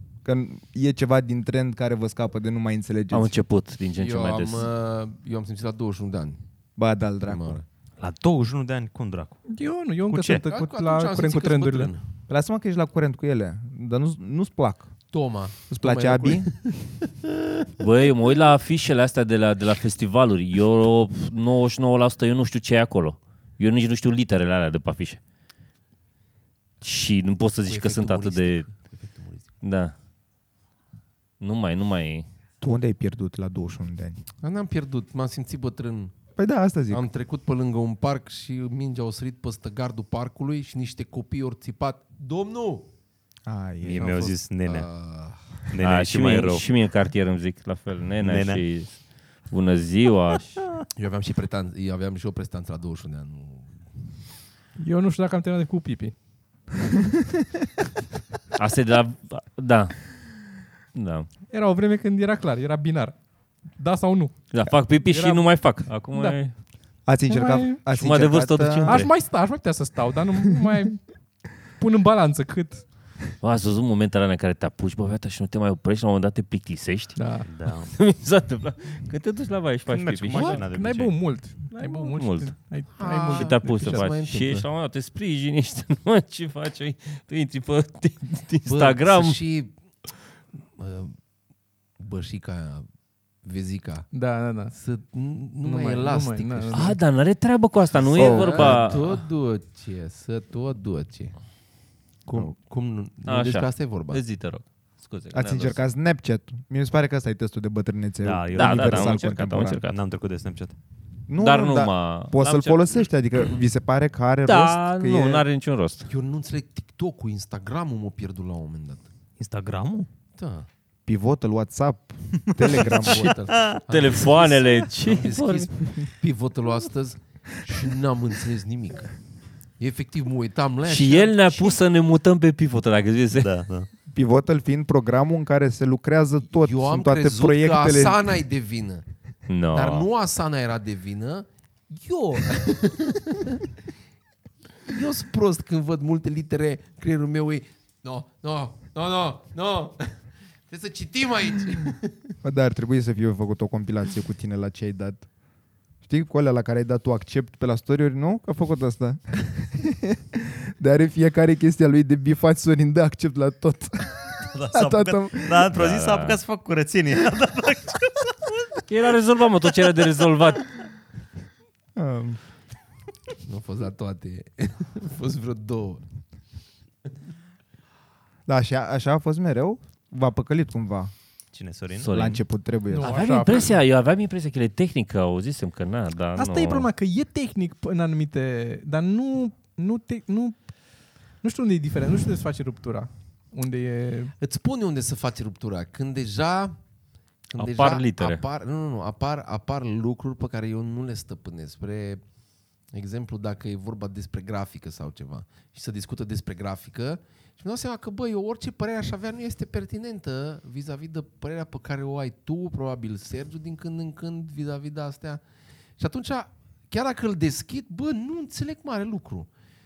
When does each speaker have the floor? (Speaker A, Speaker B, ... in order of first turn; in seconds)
Speaker A: 0.2-3.4, 6.8-7.6, 12.3-14.9, 15.7-16.5, 32.6-34.2, 36.4-37.0, 43.5-44.2, 67.0-69.0, 98.1-99.0, 105.3-109.8, 111.3-115.5, 121.0-123.3, 134.1-138.4, 152.4-155.3, 156.0-165.7, 171.9-172.4, 178.4-181.1, 182.1-183.2
Speaker B: 3.1-4.7, 17.8-25.2, 26.8-28.7, 29.6-29.9, 31.4-32.2, 45.8-50.6, 58.5-61.3, 64.5-66.5, 67.9-69.1, 73.4-80.6, 81.7-82.5, 83.1-89.4, 96.7-99.2, 103.2-105.8, 108.5-110.0, 111.4-112.8, 114.5-116.1, 123.9-126.0, 130.8-133.5, 139.5-140.1, 165.7-166.4, 168.9-170.7, 182.0-186.9, 197.6-198.4
Speaker C: 4.0-6.4, 7.2-7.6, 10.4-12.0, 15.1-16.9, 27.7-29.4, 34.4-36.1, 36.9-42.9, 44.0-45.6, 50.9-53.8, 82.9-84.7, 88.7-89.7, 90.8-91.2, 92.0-92.9, 93.4-94.1, 94.7-97.0, 98.0-101.4, 102.2-104.2, 116.1-119.0, 120.3-120.7, 122.7-129.1, 129.8-131.8, 136.5-139.1, 139.7-143.5, 144.8-152.3, 173.4-176.0, 194.4-196.8, 197.5-202.2, 202.9-215.4, 216.0-219.5
Speaker D: 8.0-9.4, 10.1-10.5, 43.8-44.9, 45.7-46.6, 48.2-48.6, 77.5-78.0, 79.9-81.3, 108.2-110.8, 119.4-120.1, 122.4-123.8, 133.4-133.9, 164.5-168.8, 181.5-182.1
Speaker E: 9.5-11.9, 54.8-56.1, 61.5-63.2, 63.7-64.5, 65.0-66.4, 67.3-67.8, 68.9-71.1, 71.7-72.8, 77.2-77.5, 80.3-84.1, 94.1-94.7, 95.6-97.0, 182.9-183.7, 186.3-190.7, 191.4-194.3